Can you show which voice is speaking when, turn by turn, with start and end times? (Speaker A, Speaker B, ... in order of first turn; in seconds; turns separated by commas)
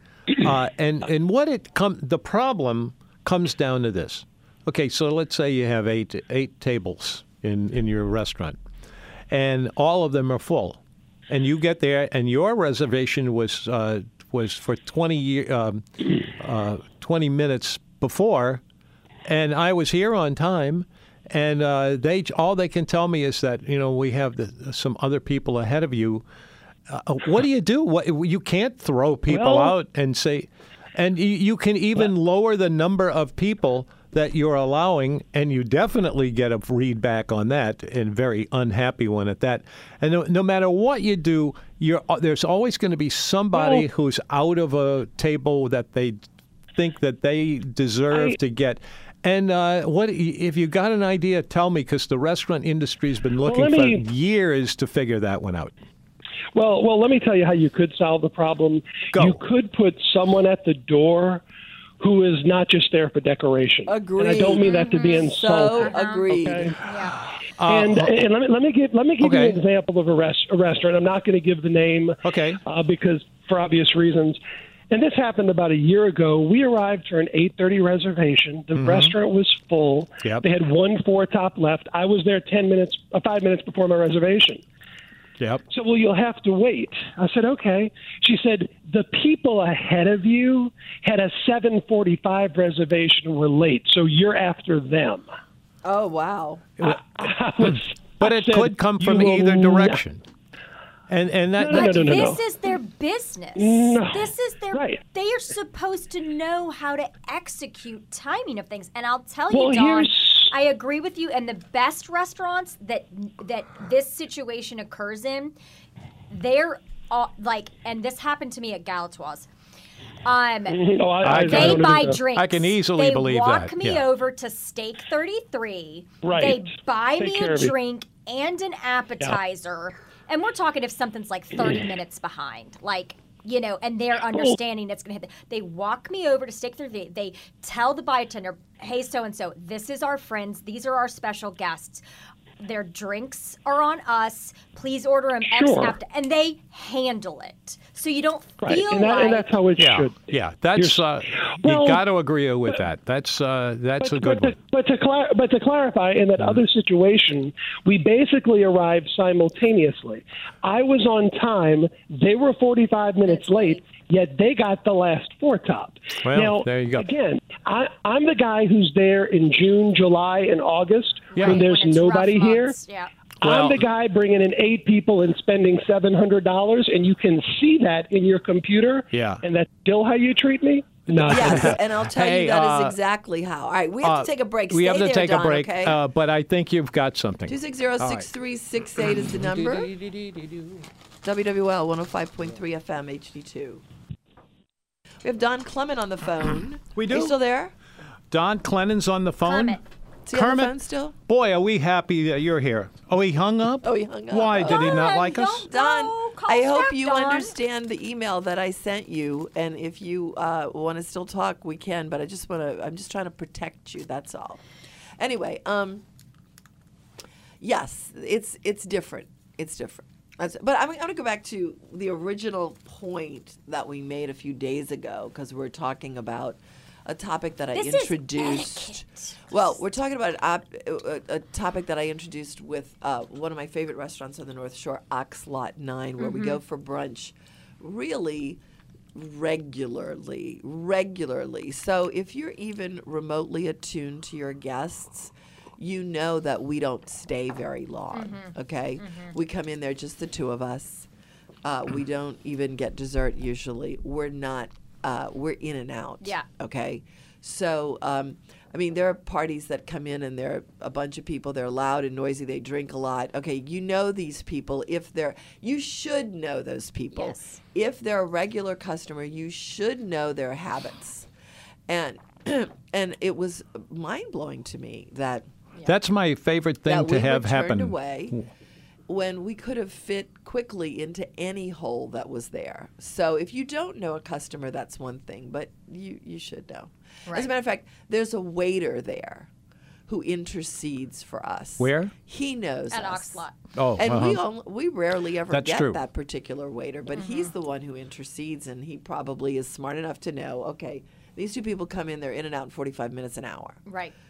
Speaker A: 0.4-8.6, Speaker A: 9.3-15.8, Speaker A: 16.4-18.6, Speaker A: 19.2-26.2, Speaker A: 26.9-46.2, Speaker B: 29.3-29.7, Speaker B: 43.5-43.9, Speaker A: 46.8-55.7, Speaker B: 48.1-48.4, Speaker B: 53.4-54.0, Speaker B: 56.5-61.4, Speaker A: 59.1-59.4, Speaker B: 62.0-66.8, Speaker C: 63.9-66.8, Speaker D: 64.6-66.3, Speaker D: 66.8-67.2, Speaker A: 67.6-68.1, Speaker B: 67.7-74.4, Speaker A: 69.2-69.6, Speaker A: 72.2-72.6, Speaker B: 74.9-84.6, Speaker A: 78.8-79.1, Speaker B: 85.7-95.3, Speaker C: 95.8-96.7, Speaker B: 96.8-100.0, Speaker A: 97.6-100.2, Speaker A: 101.1-102.2, Speaker B: 101.6-102.4, Speaker D: 101.7-115.5, Speaker B: 103.6-105.0, Speaker B: 109.5-110.5, Speaker D: 116.3-119.5, Speaker D: 120.2-120.8, Speaker B: 120.7-122.2, Speaker A: 121.2-124.0, Speaker D: 121.3-142.0, Speaker B: 126.2-126.7, Speaker B: 127.2-127.7, Speaker D: 142.6-149.6, Speaker B: 145.5-146.0, Speaker B: 148.6-152.0, Speaker A: 149.8-154.6, Speaker B: 154.0-172.8, Speaker D: 163.3-163.8, Speaker A: 166.2-167.1, Speaker D: 171.3-173.1, Speaker A: 171.4-171.6, Speaker B: 173.4-181.8, Speaker A: 173.4-173.8, Speaker A: 179.1-179.4, Speaker A: 181.1-182.9, Speaker C: 181.3-186.0, Speaker A: 184.0-188.3, Speaker C: 187.5-189.9, Speaker A: 189.9-190.6, Speaker C: 191.2-193.8, Speaker C: 195.2-197.7, Speaker A: 196.9-197.4, Speaker A: 198.3-200.8, Speaker D: 199.4-199.8, Speaker C: 200.3-201.2, Speaker A: 201.3-205.7, Speaker C: 203.8-214.6, Speaker D: 204.7-207.5, Speaker C: 215.2-216.0, Speaker C: 217.6-238.6, Speaker D: 227.7-229.8, Speaker D: 236.2-236.6, Speaker C: 239.1-251.1, Speaker D: 248.1-249.3, Speaker C: 251.6-271.3, Speaker D: 267.1-267.6, Speaker C: 271.9-275.5, Speaker A: 275.9-278.4, Speaker C: 276.9-278.4, Speaker C: 279.1-289.5, Speaker C: 290.1-293.4, Speaker A: 291.8-292.1, Speaker D: 292.9-293.6, Speaker A: 293.8-294.4, Speaker C: 294.0-303.8, Speaker A: 295.5-296.0, Speaker D: 297.1-297.5, Speaker D: 303.9-304.1